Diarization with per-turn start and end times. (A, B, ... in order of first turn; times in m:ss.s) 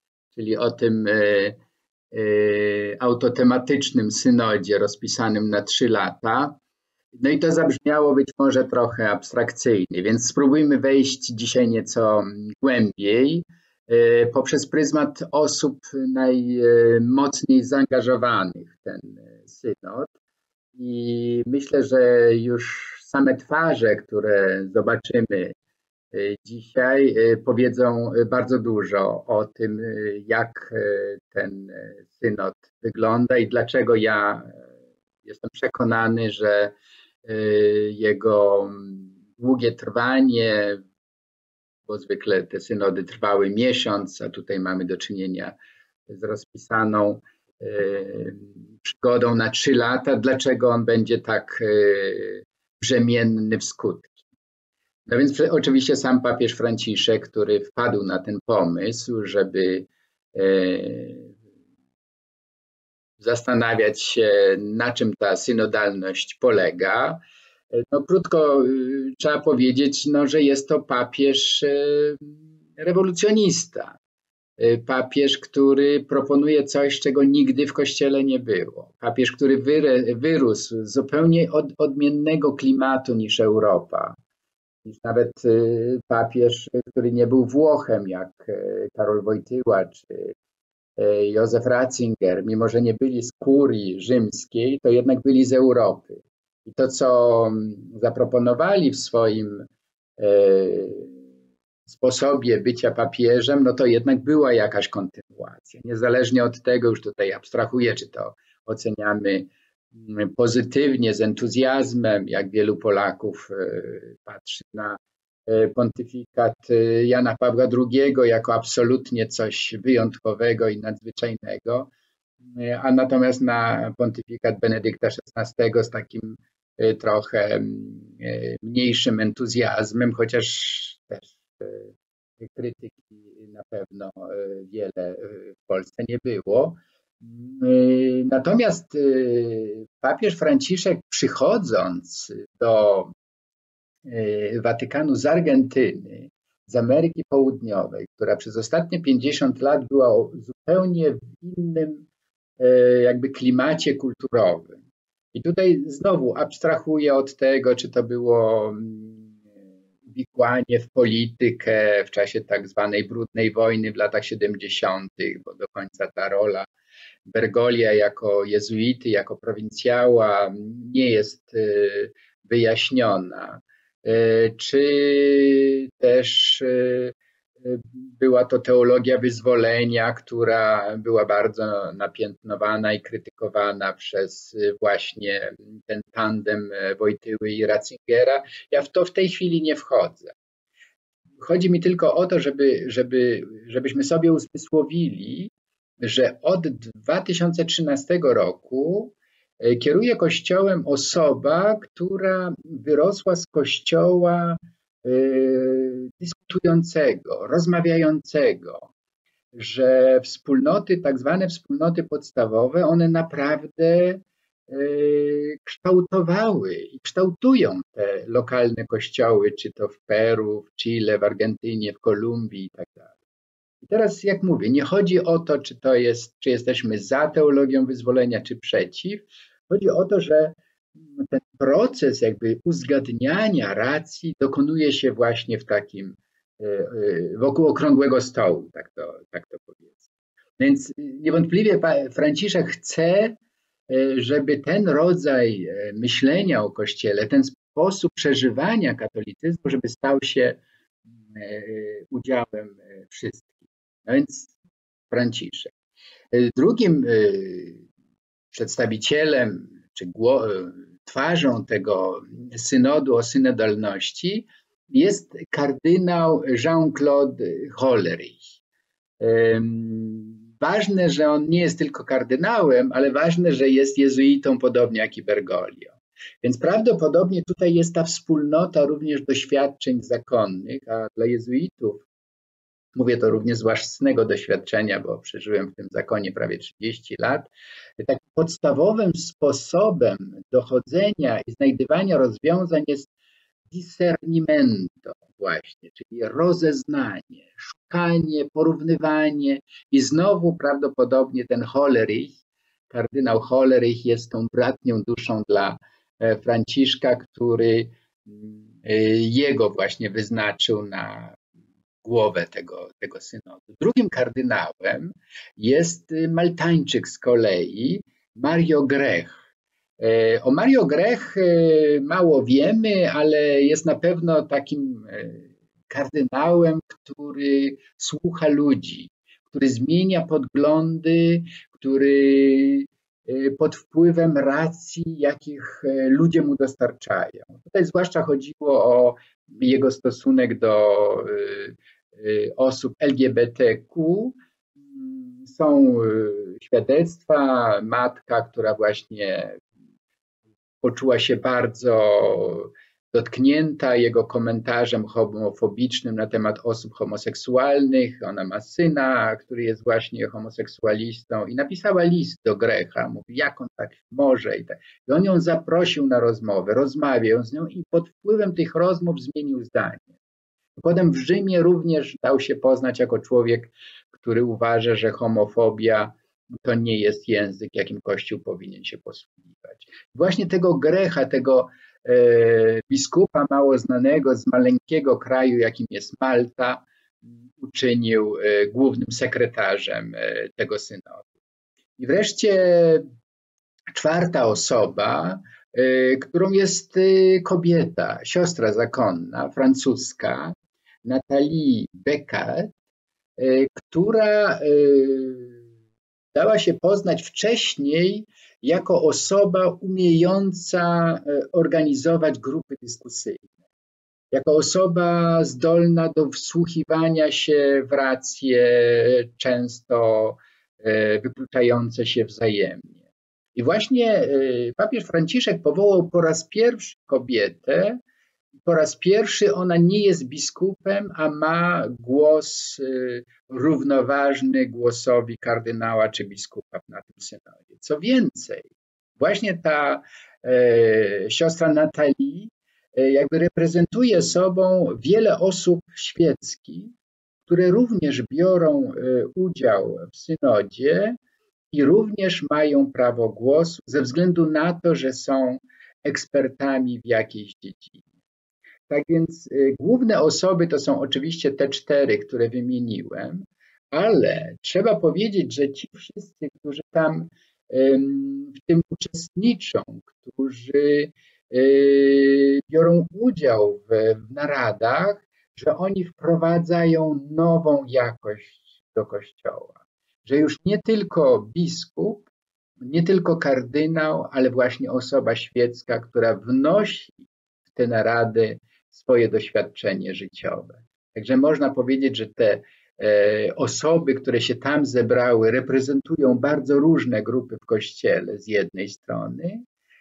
0:00.3-0:01.6 A
0:02.1-0:06.6 A
0:07.2-0:20.1 A
0:20.8-0:25.6 A
0:26.1-0:34.6 A
0:35.2-0:40.8 A
0:41.9-0:45.6 A
0:46.1-0:54.2 A
0:55.1-1:01.3 A
1:03.2-1:07.2 A
1:07.7-1:14.0 A
1:14.6-1:24.2 A
1:24.8-1:30.4 A
1:31.0-1:39.7 A
1:40.2-1:41.2 A
1:41.9-2:01.9 A
2:02.4-2:23.1 A
2:24.0-2:32.1 A
2:32.6-2:34.8 A
2:35.3-2:39.3 A
2:40.1-2:46.7 A
2:47.2-3:10.4 A
3:11.4-3:28.9 A
3:29.5-3:43.1 A
3:43.8-4:00.1 A
4:00.6-4:03.4 A
4:03.9-4:10.6 A
4:11.3-4:14.5 A
4:15.1-4:15.7 A
4:16.3-4:17.8 A
4:18.5-4:28.4 A
4:29.2-4:42.1 A
4:43.0-4:53.1 A
4:53.7-5:02.4 A
5:02.9-5:11.4 A
5:12.0-5:19.4 A
5:20.0-5:44.4 A
5:44.9-5:49.6 A
5:50.8-6:10.1 A
6:10.8-6:26.9 A
6:27.6-6:31.3 A
6:32.0-6:33.0 A
6:34.0-6:42.7 A
6:43.4-6:45.6 A
6:46.3-6:53.5 A
6:54.3-7:03.0 A
7:03.6-7:08.0 A
7:08.6-7:26.9 A
7:27.5-7:31.2 A
7:31.7-7:38.0 A
7:38.9-8:02.3 A
8:02.8-8:19.6 A